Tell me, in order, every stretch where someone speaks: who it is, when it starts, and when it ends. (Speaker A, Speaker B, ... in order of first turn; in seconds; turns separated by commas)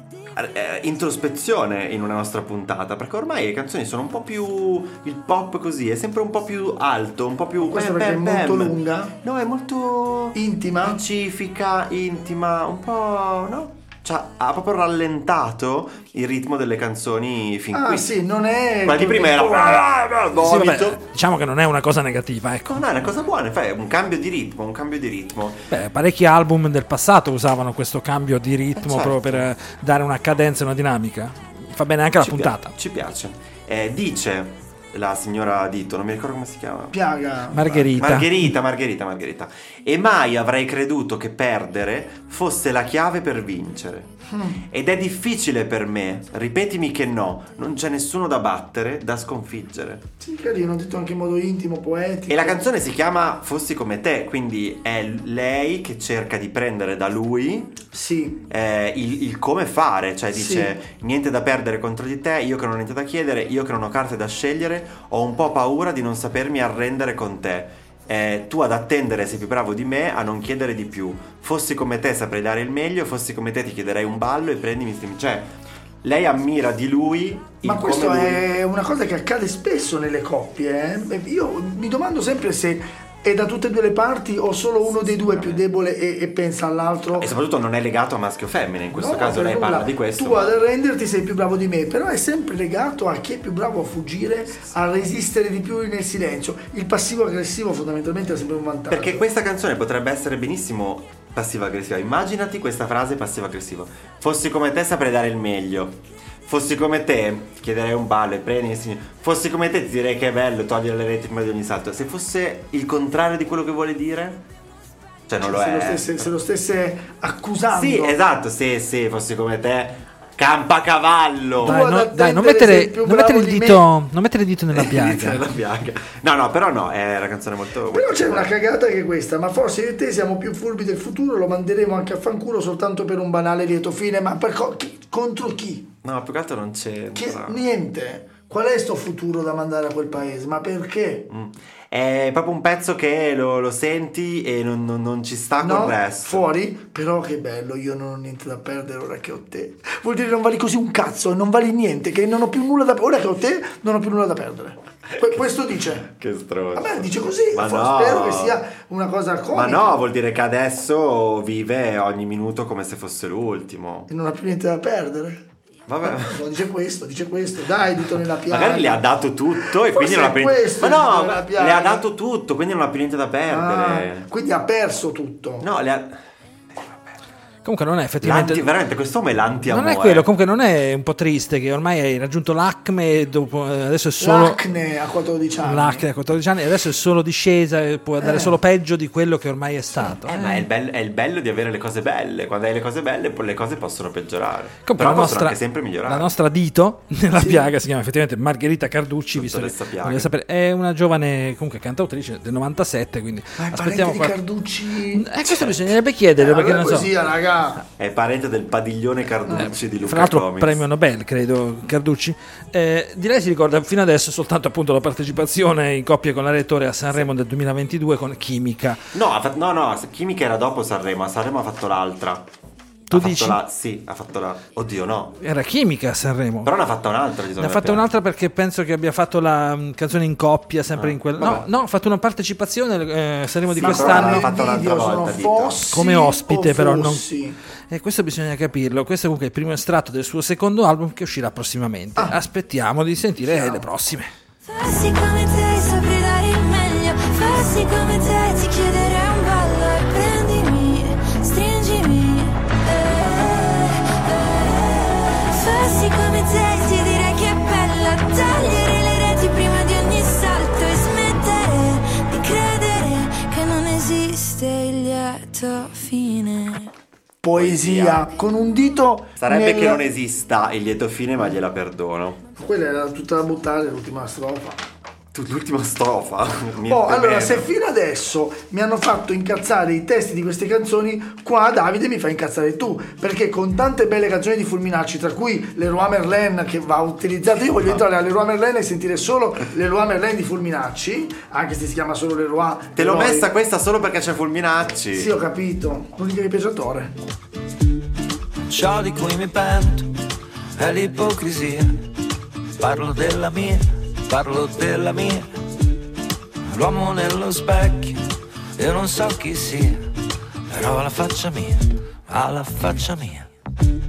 Speaker A: 0.3-18.1, Speaker B: 7.6-9.2, Speaker B: 10.3-11.0, Speaker B: 17.7-19.9, Speaker A: 18.8-21.0, Speaker C: 20.4-22.8, Speaker A: 22.7-25.6, Speaker C: 25.7-32.7, Speaker A: 28.8-29.5, Speaker A: 32.2-37.0, Speaker B: 36.9-37.6, Speaker A: 37.5-44.1, Speaker C: 37.5-38.5, Speaker B: 44.3-44.6, Speaker A: 44.6-50.0, Speaker B: 50.2-52.6, Speaker A: 52.3-57.8, Speaker B: 57.9-58.4, Speaker A: 58.5-78.4, Speaker B: 60.3-60.7, Speaker B: 77.6-87.3, Speaker A: 84.9-85.6, Speaker A: 87.1-90.5, Speaker B: 88.9-99.2, Speaker A: 98.9-114.4, Speaker A: 115.3-116.3, Speaker B: 115.4-118.2, Speaker A: 117.7-121.8, Speaker B: 121.6-123.8, Speaker C: 121.6-125.4, Speaker A: 124.7-128.5, Speaker B: 127.9-135.9, Speaker A: 136.0-137.6, Speaker B: 137.2-141.3, Speaker A: 141.3-146.5, Speaker B: 145.6-156.1, Speaker A: 156.0-158.6, Speaker B: 156.8-159.8, Speaker A: 159.5-164.1, Speaker B: 164.1-165.4, Speaker A: 165.9-166.4, Speaker B: 166.0-169.1, Speaker A: 168.5-174.3, Speaker B: 169.6-172.0, Speaker B: 173.5-175.7, Speaker A: 175.6-176.2, Speaker C: 177.7-178.7, Speaker A: 178.2-180.3, Speaker C: 179.7-184.6, Speaker B: 184.2-186.1, Speaker C: 185.6-190.7, Speaker B: 188.2-188.6, Speaker A: 190.3-196.3, Speaker C: 194.8-204.4, Speaker B: 197.4-197.7, Speaker A: 199.3-200.3, Speaker B: 203.6-205.3, Speaker C: 205.1-207.1, Speaker A: 205.5-205.8, Speaker B: 206.4-207.8, Speaker A: 208.0-210.8, Speaker C: 209.6-219.0, Speaker A: 219.2-222.4, Speaker C: 223.1-223.6, Speaker A: 223.1-225.4, Speaker C: 225.4-226.8, Speaker A: 226.6-228.1, Speaker C: 227.6-234.5, Speaker A: 230.9-231.7, Speaker A: 233.7-235.8, Speaker B: 233.8-237.6, Speaker C: 235.9-237.3, Speaker C: 237.9-244.3, Speaker B: 243.4-243.8, Speaker D: 244.7-266.9, Speaker B: 267.4-270.1, Speaker A: 267.5-268.3, Speaker A: 269.4-272.4, Speaker B: 272.6-274.8, Speaker A: 275.3-277.7, Speaker B: 276.9-293.5, Speaker A: 293.0-295.3, Speaker B: 295.1-297.1, Speaker E: 298.6-300.1, Speaker E: 300.8-301.9, Speaker E: 302.8-305.5, Speaker E: 306.7-308.2, Speaker E: 308.8-310.0, Speaker E: 310.7-313.5